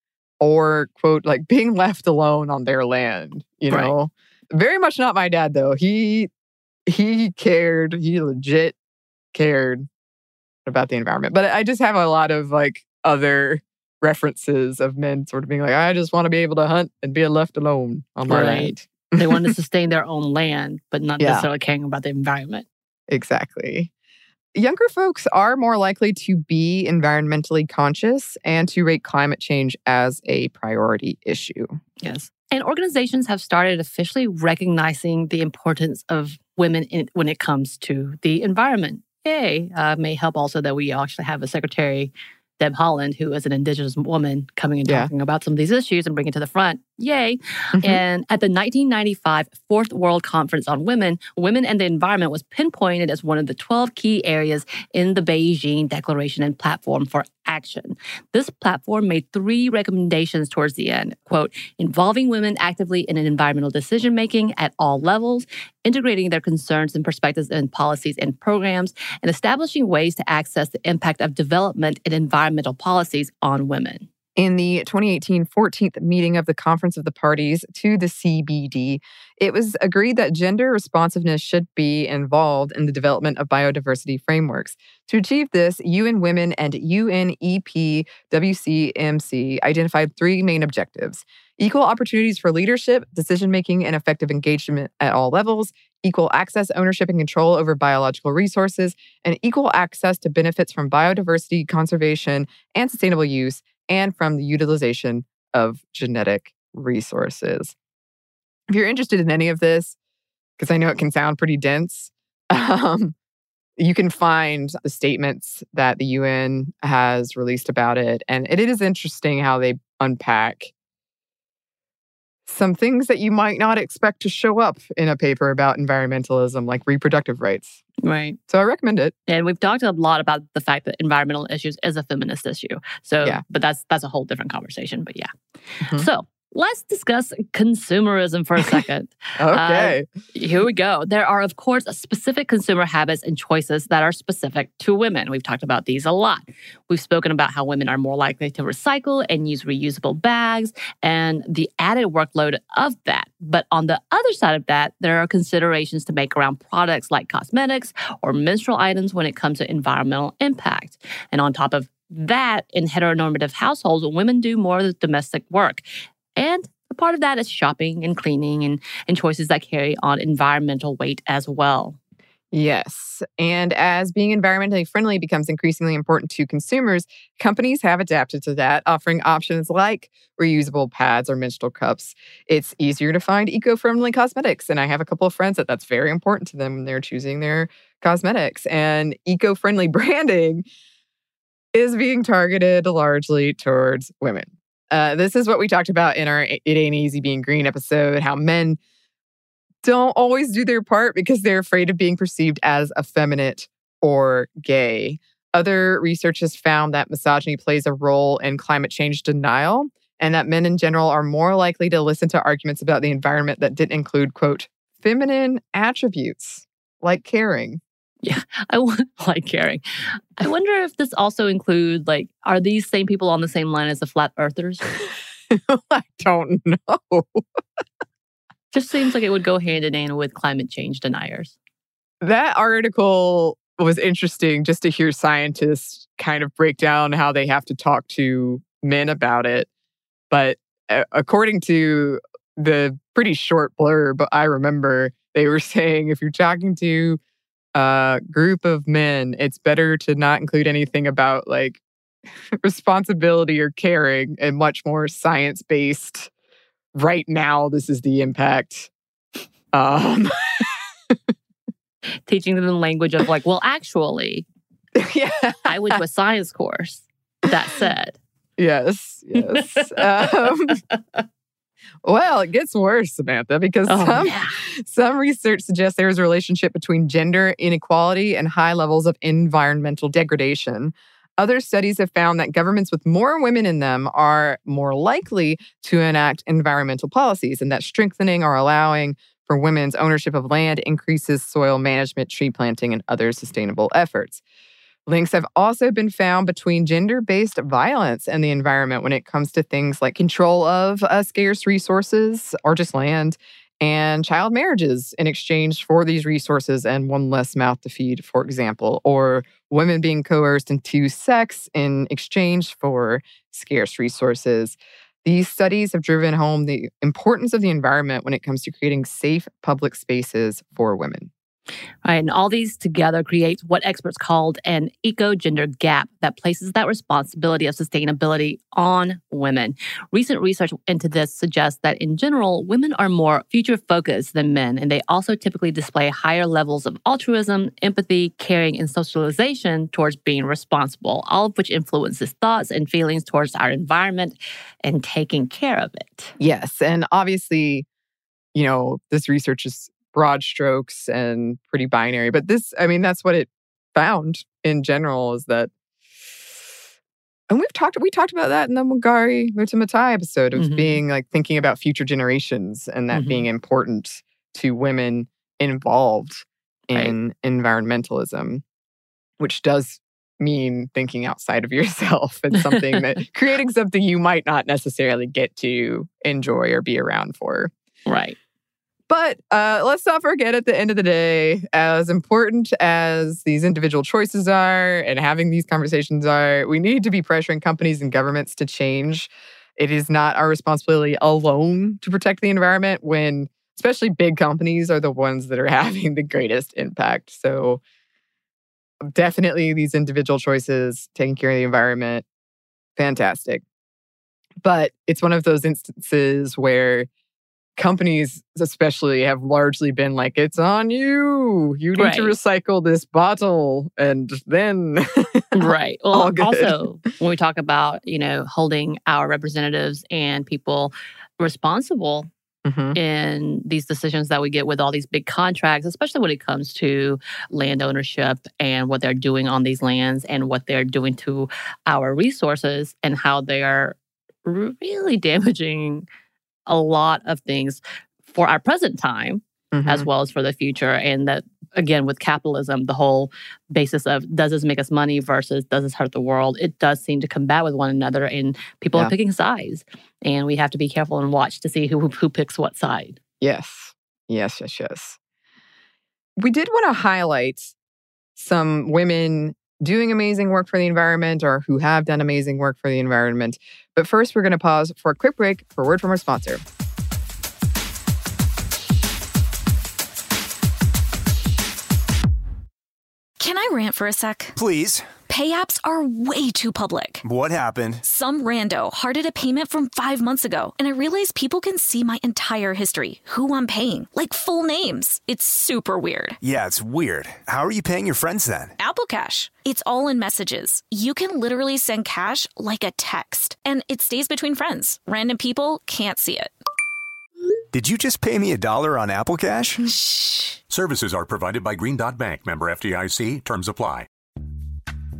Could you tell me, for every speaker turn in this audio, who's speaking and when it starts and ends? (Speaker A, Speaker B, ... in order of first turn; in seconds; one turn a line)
Speaker A: 0.4-6.3
Speaker B: 3.7-3.9
Speaker A: 6.9-8.8
Speaker A: 9.3-9.9
Speaker A: 10.7-19.5
Speaker B: 18.3-22.6
Speaker A: 21.2-21.5
Speaker A: 23.1-23.9
Speaker A: 24.5-31.8
Speaker B: 32.0-74.1
Speaker A: 44.8-45.1
Speaker A: 47.8-48.0
Speaker A: 74.3-107.7
Speaker A: 108.7-110.0
Speaker A: 110.6-113.1
Speaker A: 113.8-120.7
Speaker A: 122.5-127.8
Speaker B: 128.0-128.4
Speaker A: 128.5-129.1
Speaker B: 129.3-135.3
Speaker A: 135.8-136.1
Speaker B: 135.9-165.8
Speaker A: 139.4-140.1
Speaker B: 166.3-172.0
Speaker A: 172.5-190.7
Speaker A: 191.7-198.8
Speaker A: 199.8-217.8
Speaker B: 218.2-224.9
Speaker A: 224.9-227.4
Speaker B: 228.7-231.5
Speaker A: 232.2-239.7
Speaker A: 240.3-247.2
Speaker A: 247.7-251.8
Speaker A: 252.6-256.3
Speaker A: 256.9-258.9
Speaker A: 259.7-260.8
Speaker B: 262.3-264.4
Speaker A: 264.9-266.0
Speaker B: 265.6-268.2
Speaker A: 268.6-270.8
Speaker B: 269.4-270.7
Speaker A: 272.0-294.4
Speaker B: 273.9-274.6
Speaker A: 295.1-321.3
Speaker B: 322.0-346.3
Speaker A: 346.4-347.9
Speaker A: 348.5-355.7
Speaker A: 357.5-368.6
Speaker B: 360.5-361.0
Speaker B: 363.1-363.5
Speaker A: 369.4-377.7
Speaker B: 372.5-373.2
Speaker B: 378.1-378.4
Speaker A: 379.1-397.8
Speaker A: 399.1-402.2
Speaker A: 403.0-403.6
Speaker A: 404.6-407.1
Speaker A: 407.8-415.6
Speaker B: 411.9-412.4
Speaker B: 415.5-422.3
Speaker A: 416.1-416.8
Speaker A: 422.6-423.0
Speaker B: 422.9-436.1
Speaker B: 436.7-453.2
Speaker A: 439.7-440.1
Speaker A: 453.4-455.2
Speaker A: 456.4-457.7
Speaker A: 458.4-466.6
Speaker C: 473.4-474.6
Speaker D: 474.6-475.1
Speaker C: 475.3-477.2
Speaker D: 477.2-478.0
Speaker C: 478.0-486.4
Speaker D: 486.4-488.7
Speaker C: 488.8-496.5
Speaker D: 497.7-499.8
Speaker C: 499.9-500.6
Speaker E: 500.7-504.1